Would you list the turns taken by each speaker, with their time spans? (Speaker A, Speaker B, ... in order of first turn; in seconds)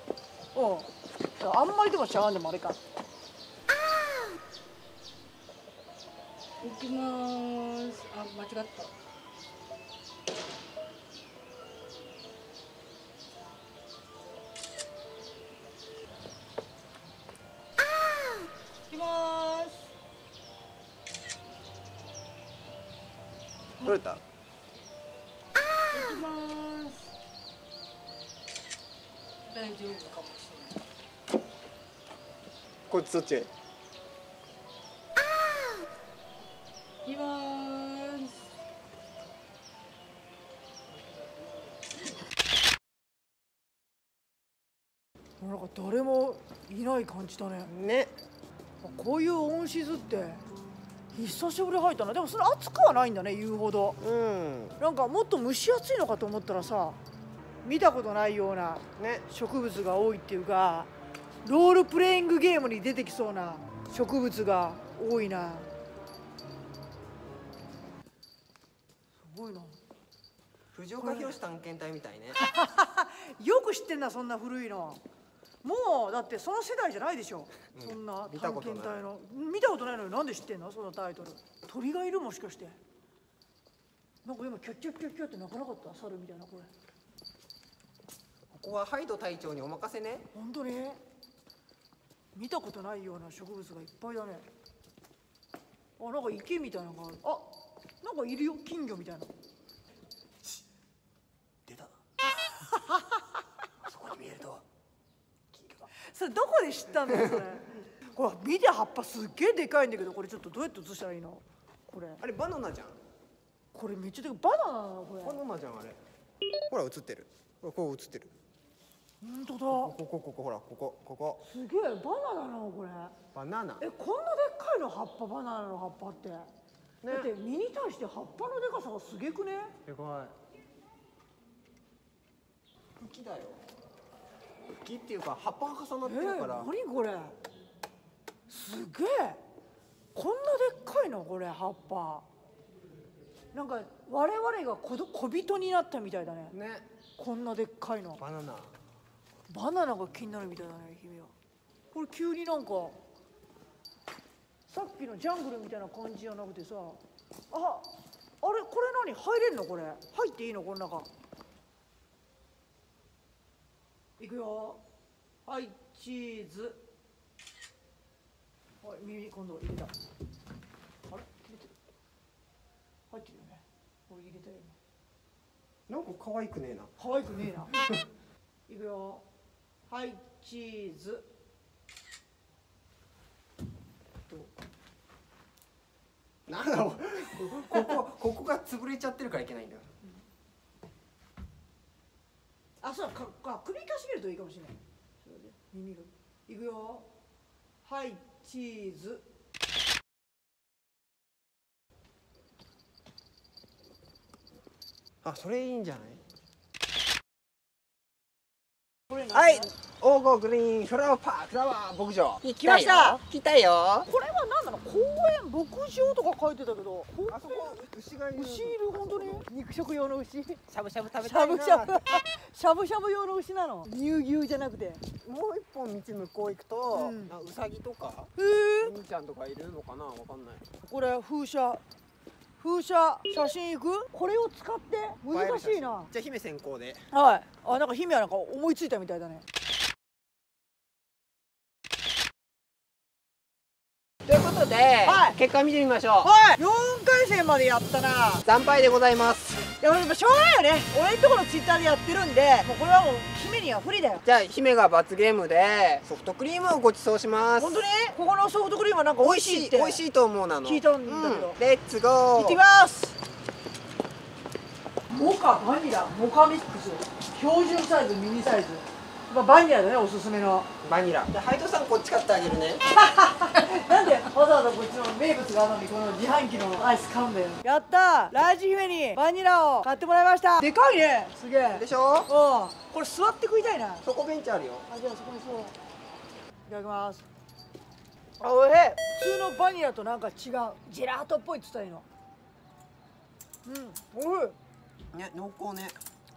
Speaker A: 0.5-2.8, 45.4-47.7, 48.8-50.4, 51.1-54.0, 54.8-57.0, 57.6-60.9, 61.4-65.7, 69.2-69.8, 71.0-71.4, 72.4-75.0, 75.6-82.8, 84.2-86.7, 90.3-91.0, 92.3-94.5, 96.0-99.3, 102.7-103.0, 106.0-112.2, 113.7-115.4, 119.2-119.9, 121.4-123.1, 123.8-126.5, 127.1-129.7, 136.0-137.3, 138.5-139.4, 140.1-142.2, 143.5-146.5, 147.2-148.2, 149.5-151.3, 151.9-153.0, 154.7-161.1, 164.2-164.8, 165.4-166.8, 168.8-169.9, 171.1-171.7, 173.1-174.8, 177.0-177.7, 178.7-179.2, 179.9-181.2, 192.8-197.1, 197.8-199.2, 209.1-209.7, 212.6-213.2, 214.1-217.8, 218.3-220.6, 221.2-225.0, 226.9-227.3, 228.3-228.9, 230.8-231.8, 232.6-236.1, 237.1-239.4, 245.0-245.3, 246.2-248.4, 249.8-254.2, 257.6-260.0, 260.6-261.6, 262.3-263.1, 265.1-270.7, 272.9-284.0, 284.9-285.8, 286.7-287.2, 288.4-292.0, 293.6-294.6
Speaker B: 6.6-8.9, 18.9-19.9, 25.9-27.1, 29.4-30.8, 37.0-38.5
Speaker C: 23.8-24.2, 32.9-33.5, 47.7-48.1, 54.0-54.8, 59.0-59.2, 70.7-72.4, 77.7-79.0, 88.5-90.3, 103.8-104.6, 105.5-105.8, 112.2-113.0, 115.2-116.0, 116.7-118.3, 119.7-121.4, 123.3-123.8, 127.0-127.3, 129.8-130.3, 133.0-133.6, 134.8-136.7, 146.5-146.8, 148.2-148.7, 175.9-176.9, 186.5-189.9, 205.2-206.2, 209.3-214.1, 217.3-219.5, 220.7-222.0, 225.2-230.7, 235.3-237.1, 244.2-246.3, 248.4-249.7, 254.2-257.8, 259.2-262.6, 270.8-272.9, 281.7-282.3, 284.0-284.9, 295.1-296.0